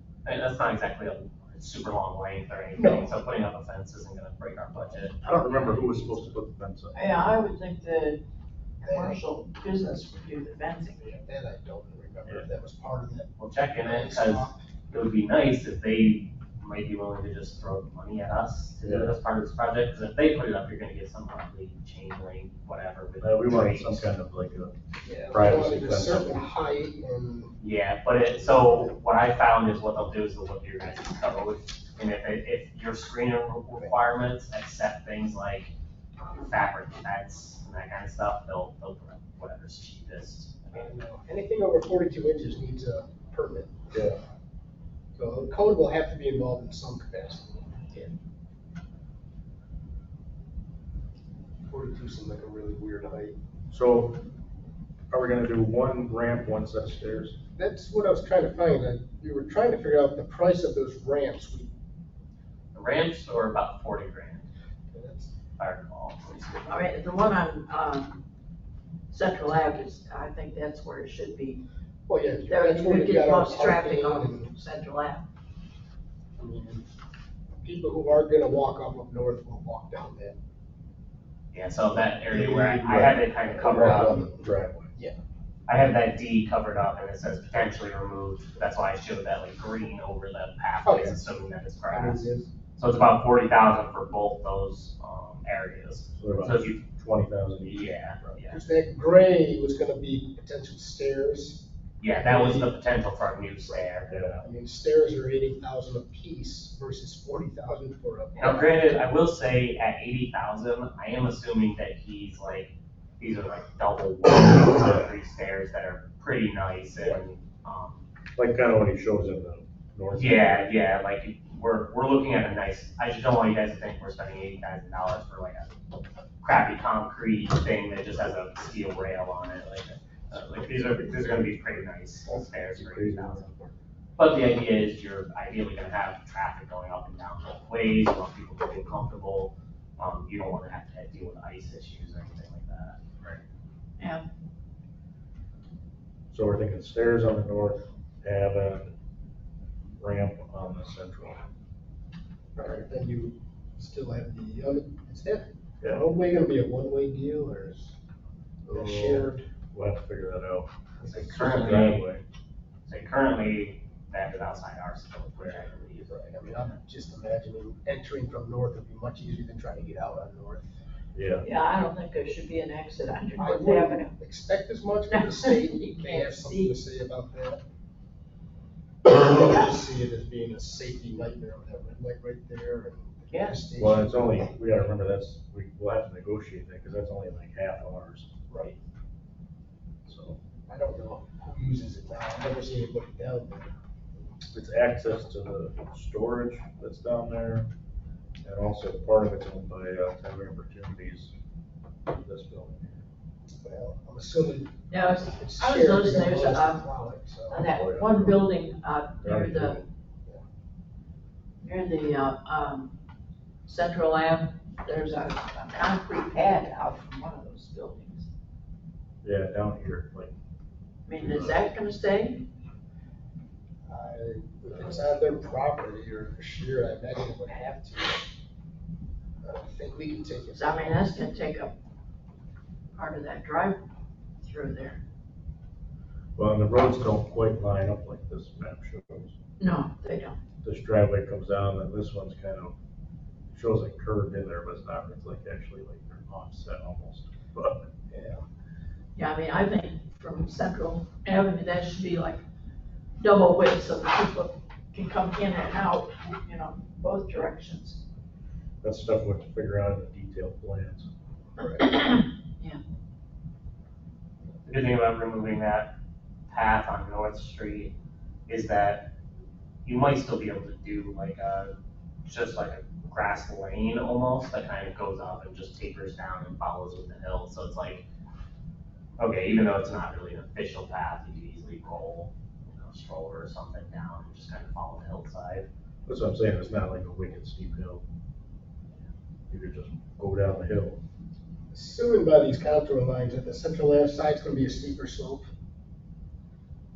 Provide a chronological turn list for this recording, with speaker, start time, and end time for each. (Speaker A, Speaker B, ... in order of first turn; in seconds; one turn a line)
Speaker A: 0.2-5.2
Speaker B: 2.8-3.1
Speaker C: 5.2-7.0
Speaker D: 5.2-6.2
Speaker D: 6.9-8.2
Speaker D: 8.8-11.0
Speaker B: 8.8-9.2
Speaker B: 10.9-14.6
Speaker A: 13.4-24.1
Speaker C: 18.8-19.2
Speaker C: 23.2-24.8
Speaker B: 25.0-27.6
Speaker C: 25.3-26.4
Speaker A: 27.6-35.7
Speaker A: 36.3-41.0
Speaker B: 40.7-43.9
Speaker C: 43.9-44.2
Speaker B: 45.1-48.1
Speaker B: 51.7-53.4
Speaker C: 53.7-54.2
Speaker C: 55.1-57.4
Speaker B: 57.5-61.7
Speaker A: 62.7-64.5
Speaker B: 64.9-65.3
Speaker A: 65.6-66.8
Speaker D: 66.7-68.2
Speaker D: 69.1-71.6
Speaker B: 72.1-74.5
Speaker D: 72.5-75.3
Speaker B: 76.4-76.8
Speaker B: 77.6-80.4
Speaker A: 81.5-84.3
Speaker B: 82.3-85.2
Speaker C: 82.9-84.9
Speaker A: 85.7-96.8
Speaker B: 90.8-91.2
Speaker B: 91.9-92.5
Speaker C: 96.2-98.4
Speaker A: 97.7-98.6
Speaker B: 98.5-101.7
Speaker A: 102.0-104.1
Speaker B: 102.2-102.7
Speaker C: 104.1-104.5
Speaker B: 104.4-108.8
Speaker A: 108.4-118.1
Speaker C: 114.8-115.1
Speaker C: 118.4-120.7
Speaker A: 120.1-125.7
Speaker A: 126.4-133.5
Speaker C: 132.3-133.6
Speaker A: 134.2-143.0
Speaker D: 144.0-144.3
Speaker C: 146.3-148.9
Speaker C: 150.0-151.4
Speaker B: 152.6-157.9
Speaker C: 158.7-160.7
Speaker B: 158.7-159.5
Speaker B: 161.0-161.9
Speaker A: 161.1-162.1
Speaker C: 161.2-162.2
Speaker A: 162.9-166.2
Speaker C: 165.4-165.7
Speaker B: 166.1-170.8
Speaker C: 171.1-171.5
Speaker D: 171.4-174.1
Speaker B: 173.4-177.6
Speaker D: 175.1-176.7
Speaker B: 179.1-184.5
Speaker A: 183.3-183.6
Speaker C: 183.8-188.3
Speaker B: 188.5-188.8
Speaker C: 190.1-190.4
Speaker B: 190.7-193.7
Speaker C: 194.5-197.7
Speaker C: 198.4-201.3
Speaker C: 202.1-203.1
Speaker B: 203.5-207.6
Speaker D: 204.9-209.8
Speaker C: 207.5-208.5
Speaker C: 209.2-209.9
Speaker D: 211.6-212.9
Speaker D: 213.7-218.3
Speaker C: 219.2-220.3
Speaker D: 221.1-222.4
Speaker C: 221.2-221.7
Speaker B: 223.8-228.2
Speaker B: 229.4-231.1
Speaker D: 230.5-231.8
Speaker D: 232.9-233.8
Speaker D: 234.4-235.0
Speaker C: 236.4-239.3
Speaker D: 239.6-240.4
Speaker C: 240.6-242.8
Speaker C: 243.5-247.8
Speaker B: 248.1-248.4
Speaker D: 249.2-252.4
Speaker D: 253.2-258.0
Speaker C: 258.8-261.1
Speaker B: 261.6-261.9
Speaker D: 261.7-262.8
Speaker A: 264.7-265.9
Speaker A: 266.5-267.9
Speaker A: 268.5-269.1
Speaker A: 269.9-278.1
Speaker A: 279.2-285.7
Speaker C: 286.1-288.0
Speaker C: 289.5-291.0
Speaker B: 291.7-295.5